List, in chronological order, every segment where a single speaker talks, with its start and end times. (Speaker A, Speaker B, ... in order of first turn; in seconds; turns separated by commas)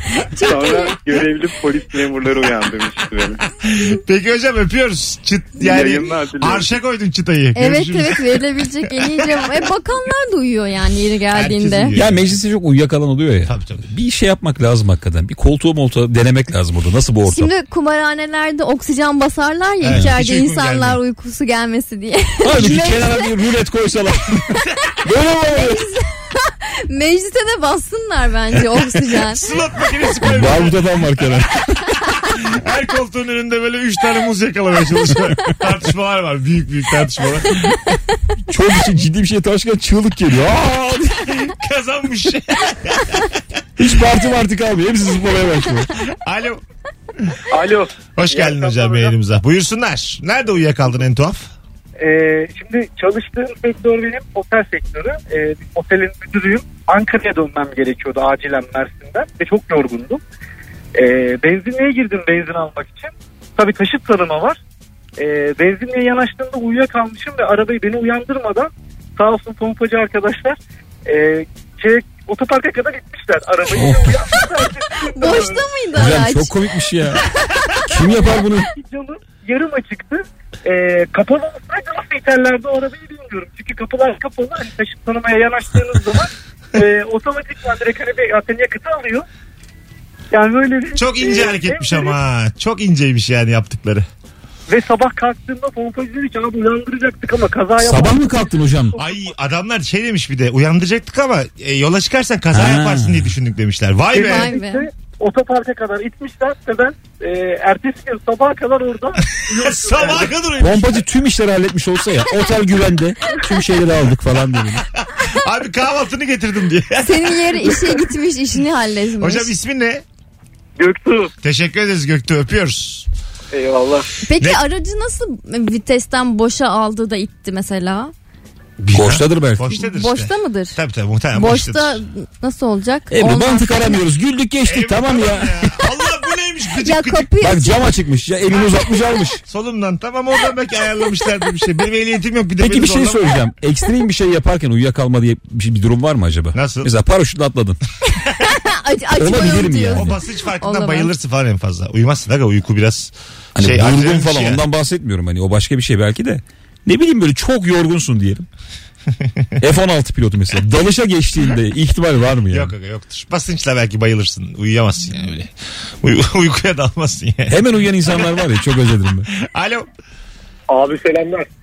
Speaker A: 0.3-1.0, Speaker B: 0.3-3.4, Speaker C: 3.6-9.3, Speaker B: 5.6-6.7, Speaker A: 7.5-11.9, Speaker C: 11.3-12.3, Speaker D: 11.9-17.5, Speaker C: 13.4-13.9, Speaker A: 17.3-23.3, Speaker C: 19.8-21.0, Speaker D: 22.4-25.8, Speaker A: 25.5-29.4, Speaker C: 29.3-31.4, Speaker D: 30.2-31.7, Speaker C: 32.2-37.8, Speaker D: 38.5-41.2, Speaker C: 41.3-43.3, Speaker D: 43.8-45.9, Speaker C: 46.1-46.6, Speaker B: 47.5-47.9, Speaker C: 48.2-51.5, Speaker E: 48.3-49.1, Speaker E: 52.0-60.2, Speaker E: 60.9-64.6, Speaker E: 65.2-75.6, Speaker D: 73.7-74.2, Speaker A: 75.1-76.5, Speaker D: 75.9-77.2, Speaker D: 77.9-78.7, Speaker E: 78.0-89.2, Speaker E: 90.3-92.2, Speaker C: 91.0-94.0, Speaker E: 94.7-99.2, Speaker D: 97.8-99.0, Speaker C: 99.0-104.5, Speaker D: 102.5-103.3, Speaker E: 104.1-110.3, Speaker A: 104.1-104.8, Speaker C: 109.5-111.0, Speaker D: 110.6-114.8, Speaker C: 115.1-117.8, Speaker A: 117.0-119.5, Speaker C: 119.2-120.0, Speaker E: 120.8-121.3, Speaker C: 121.4-123.1, Speaker E: 123.5-124.0, Speaker A: 124.2-128.1, Speaker C: 128.8-132.0, Speaker D: 128.9-129.6, Speaker A: 129.7-130.8, Speaker A: 131.3-134.0, Speaker D: 133.1-135.8, Speaker C: 134.6-137.3, Speaker A: 136.8-137.8, Speaker D: 137.4-139.4, Speaker C: 139.5-143.4, Speaker D: 142.6-147.8, Speaker C: 146.5-146.9, Speaker A: 148.3-151.1, Speaker D: 149.2-150.2, Speaker C: 149.8-154.6, Speaker D: 153.6-158.4, Speaker D: 159.6-162.7, Speaker C: 162.5-167.6, Speaker D: 167.5-169.3, Speaker C: 169.3-169.9, Speaker E: 170.7-171.5